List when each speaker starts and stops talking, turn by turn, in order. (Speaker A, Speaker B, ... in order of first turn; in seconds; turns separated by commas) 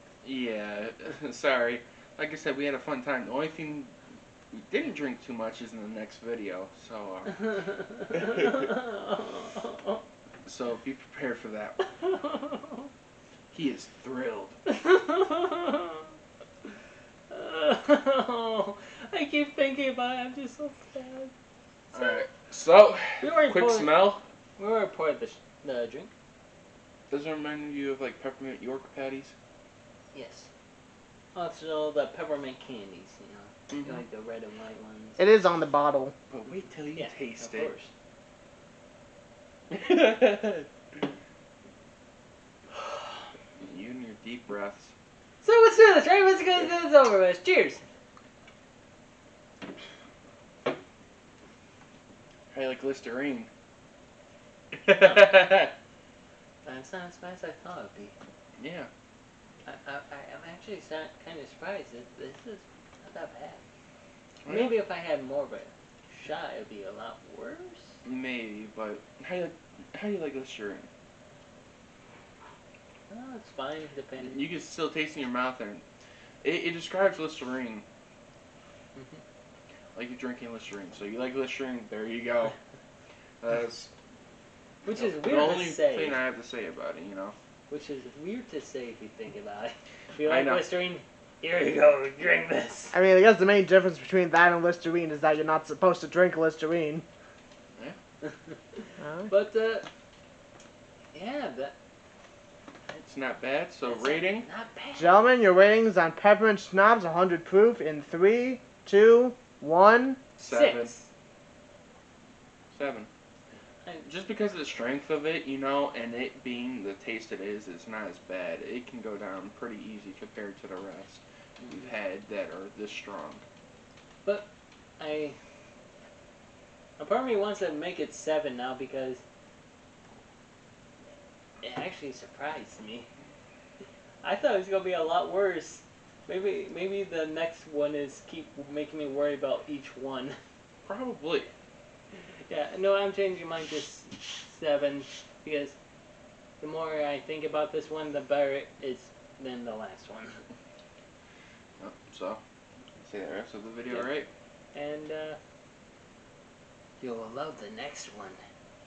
Speaker A: 0.2-3.9, Speaker A: 4.5-8.6, Speaker B: 7.5-10.0, Speaker A: 10.5-11.8, Speaker B: 12.1-12.8, Speaker A: 13.5-14.6, Speaker B: 14.7-16.1, Speaker B: 17.3-21.3, Speaker B: 21.9-22.2, Speaker A: 21.9-24.2, Speaker B: 23.2-23.9, Speaker B: 24.6-26.1, Speaker A: 27.1-29.3, Speaker B: 30.1-30.5, Speaker B: 31.3-35.3, Speaker A: 33.7-34.0, Speaker C: 35.2-36.1, Speaker A: 36.3-37.7, Speaker B: 37.0-37.9, Speaker A: 39.7-40.7, Speaker A: 43.6-44.9, Speaker B: 45.4-47.8, Speaker A: 52.5-53.5, Speaker A: 54.7-55.7, Speaker B: 54.9-55.4, Speaker B: 56.6-58.1, Speaker A: 58.6-58.9, Speaker B: 59.7-63.6, Speaker A: 64.5-64.8, Speaker B: 64.5-68.0, Speaker A: 68.0-70.9, Speaker B: 73.1-74.4, Speaker A: 74.2-75.8, Speaker A: 76.4-77.8, Speaker B: 79.0-79.2, Speaker A: 80.0-82.5, Speaker A: 83.4-83.9, Speaker B: 84.9-86.2, Speaker A: 84.9-87.4, Speaker B: 87.7-93.0, Speaker A: 90.2-90.7, Speaker C: 92.9-97.0, Speaker C: 99.0-99.3, Speaker B: 99.3-99.9, Speaker B: 101.1-101.7, Speaker A: 102.9-104.5, Speaker B: 103.9-105.2, Speaker C: 105.0-110.2, Speaker A: 110.4-110.9, Speaker B: 110.5-111.1, Speaker A: 112.7-113.1, Speaker A: 114.0-123.4, Speaker B: 125.0-125.4, Speaker B: 127.0-129.2, Speaker B: 131.6-133.1, Speaker B: 134.2-140.4, Speaker A: 140.9-141.5, Speaker B: 142.5-145.8, Speaker B: 146.6-150.4, Speaker A: 151.8-152.4, Speaker A: 153.0-154.3, Speaker B: 154.7-155.4, Speaker B: 157.0-158.4